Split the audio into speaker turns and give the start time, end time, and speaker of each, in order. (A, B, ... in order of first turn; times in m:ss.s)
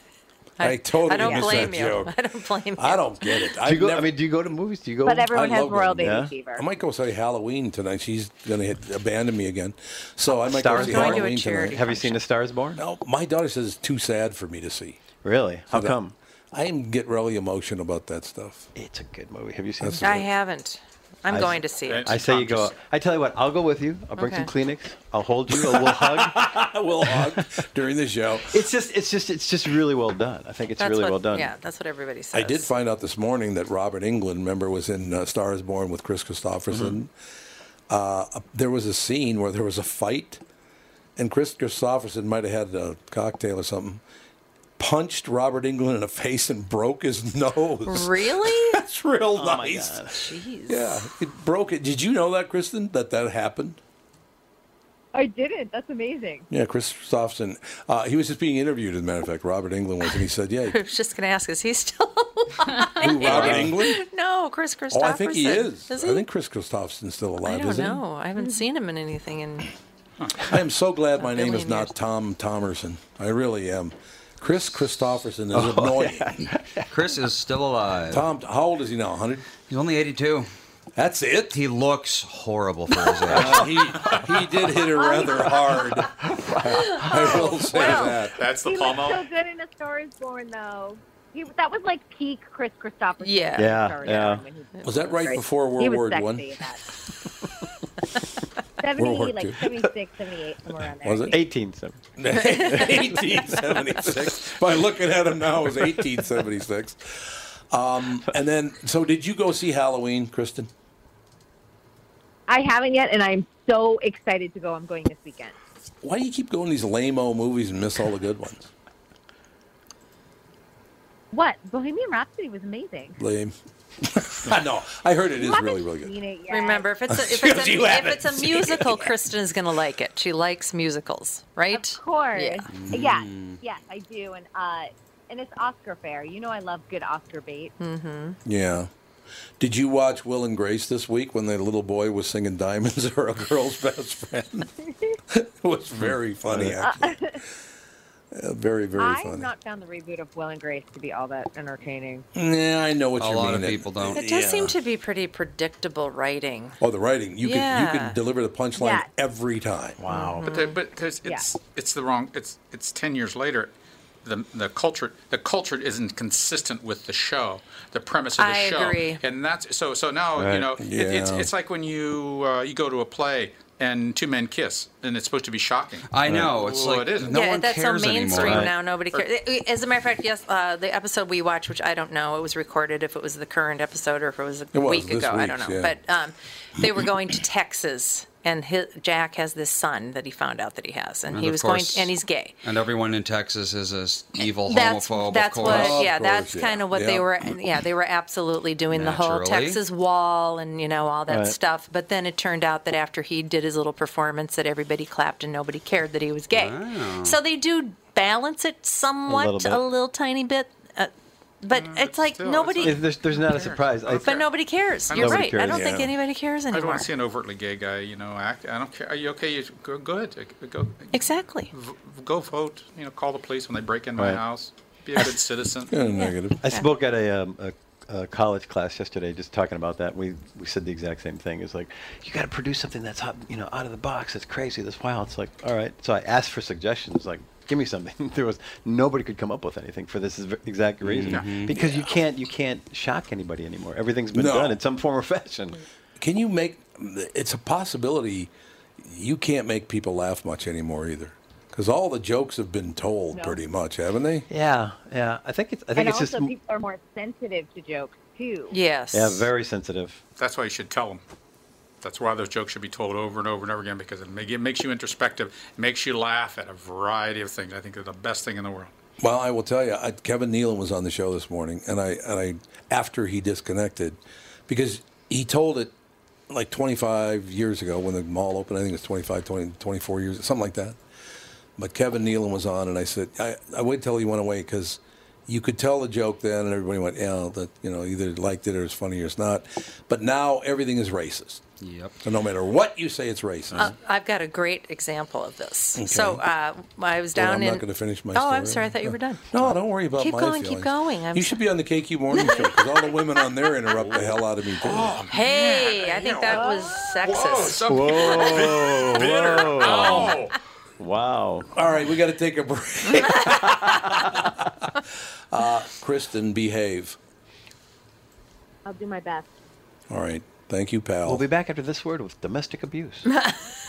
0:00.6-0:03.5 A
0:00.6-0:02.2 B
0:01.1-0:01.6 C
0:02.8-0:04.1 B
0:03.6-0:05.4 D
0:05.0-0:06.6 C
0:05.3-0:11.8 B
0:06.0-0:06.4 D
0:10.3-0:12.8 D
0:10.7-0:12.2 A
0:12.8-0:15.0 B
0:15.2-0:16.1 D
0:15.7-0:16.0 B
0:16.5-0:18.7 B
0:18.8-0:20.3 D
0:19.8-0:20.3 B
0:20.0-0:22.1 A
0:21.3-0:27.5 D
0:21.9-0:22.8 E
0:24.2-0:24.5 A
0:25.5-0:28.6 B
0:28.4-0:31.5 D
0:30.8-0:32.7 A
0:32.3-0:37.1 B
0:36.7-0:37.0 D
0:37.9-0:40.4 B
0:41.2-0:44.0 B
0:44.8-0:50.1 B
0:47.9-0:48.8 A
0:49.4-0:50.2 D
0:50.1-0:51.1 A
0:50.7-0:53.8 B
0:55.1-0:56.5 C
0:56.5-1:00.8 B
1:00.7-1:06.3 A
1:03.0-1:04.0 B
1:04.9-1:08.0 B
1:07.4-1:09.7 A
1:10.4-1:16.4 B
1:11.2-1:11.9 A
1:15.5-1:16.9 D
1:16.9-1:18.3 F
1:18.1-1:19.5 B
1:19.7-1:20.5 F
1:21.0-1:21.6 B
1:21.5-1:23.6 F
1:22.9-1:23.7 D
1:23.3-1:26.1 B
1:24.0-1:24.3 E
1:24.9-1:25.9 C
1:26.2-1:27.3 D
1:26.7-1:28.4 B
1:26.9-1:36.8 C
1:27.7-1:29.3 E
1:33.2-1:33.8 A
1:33.6-1:34.4 D
1:34.8-1:36.5 B
1:38.8-1:41.4 C
1:39.0-1:39.9 B
1:41.0-1:41.4 B
1:41.3-1:42.0 D
1:42.2-1:50.7 B
1:42.4-1:43.1 A
1:42.6-1:43.4 D
1:44.0-1:44.5 D
1:45.8-1:46.3 D
1:52.5-1:55.6 C
1:56.0-1:58.7 B
2:01.3-2:03.2 C
2:03.2-2:06.1 B
2:05.4-2:06.9 C
2:06.5-2:12.6 A
2:07.1-2:09.2 B
2:11.7-2:17.7 C
2:12.7-2:13.6 F
2:17.8-2:18.4 A
2:18.4-2:18.9 B
2:19.6-2:24.7 B
2:25.3-2:27.4 B
2:26.8-2:27.4 C
2:28.3-2:29.5 B
2:29.0-2:32.3 C
2:32.4-2:34.8 B
2:33.2-2:34.2 F
2:34.2-2:36.8 A
2:36.8-2:40.0 B
2:37.4-2:38.2 A
2:38.8-2:39.1 C
2:40.0-2:40.5 D
2:40.1-2:40.8 A
2:40.4-2:43.7 E
2:44.2-2:56.1 E
2:48.4-2:49.2 A
2:50.4-2:50.7 D
2:50.8-2:51.5 B
2:56.1-2:58.7 F
2:56.3-2:56.6 B
2:56.6-2:57.4 E
2:57.3-3:12.6 A
2:58.4-2:58.7 D
3:04.7-3:06.0 B
3:11.3-3:12.1 F
3:12.6-3:16.0 F
3:14.6-3:31.1 A
3:15.6-3:17.6 B
3:18.9-3:19.8 F
3:21.3-3:21.6 D
3:26.5-3:27.4 F
3:29.3-3:29.8 D
3:31.6-3:33.0 A
3:31.7-3:34.4 E
3:32.8-3:34.4 D
3:34.2-3:37.1 A
3:35.1-3:35.6 E
3:35.1-3:36.0 D
3:35.7-3:36.1 B
3:36.7-3:41.2 E
3:41.1-3:41.7 A
3:41.7-3:45.9 E
3:45.9-3:46.6 B
3:46.2-3:46.9 A
3:46.6-4:05.8 D
4:01.0-4:01.7 F
4:01.3-4:02.1 E
4:04.3-4:04.8 B
4:06.2-4:14.5 B
4:13.3-4:13.6 C
4:14.5-4:16.5 D
4:16.0-4:18.7 C
4:18.7-4:19.5 A
4:19.1-4:20.2 D
4:20.4-4:21.2 E
4:22.0-4:28.9 E
4:29.2-4:35.9 B
4:36.5-4:41.0 B
4:41.8-4:51.6 B
4:51.8-4:52.2 F
4:52.2-4:53.9 B
4:53.8-5:01.6 A
4:56.0-4:56.4 B
4:57.4-5:05.2 B
5:02.3-5:03.2 A
5:04.0-5:10.6 E
5:05.3-5:07.8 A
5:07.9-5:10.4 D
5:11.0-5:11.7 D
5:11.7-5:14.9 B
5:13.9-5:14.2 D
5:15.5-5:17.2 B
5:18.8-5:19.5 C
5:20.1-5:21.4 B
5:21.2-5:23.3 D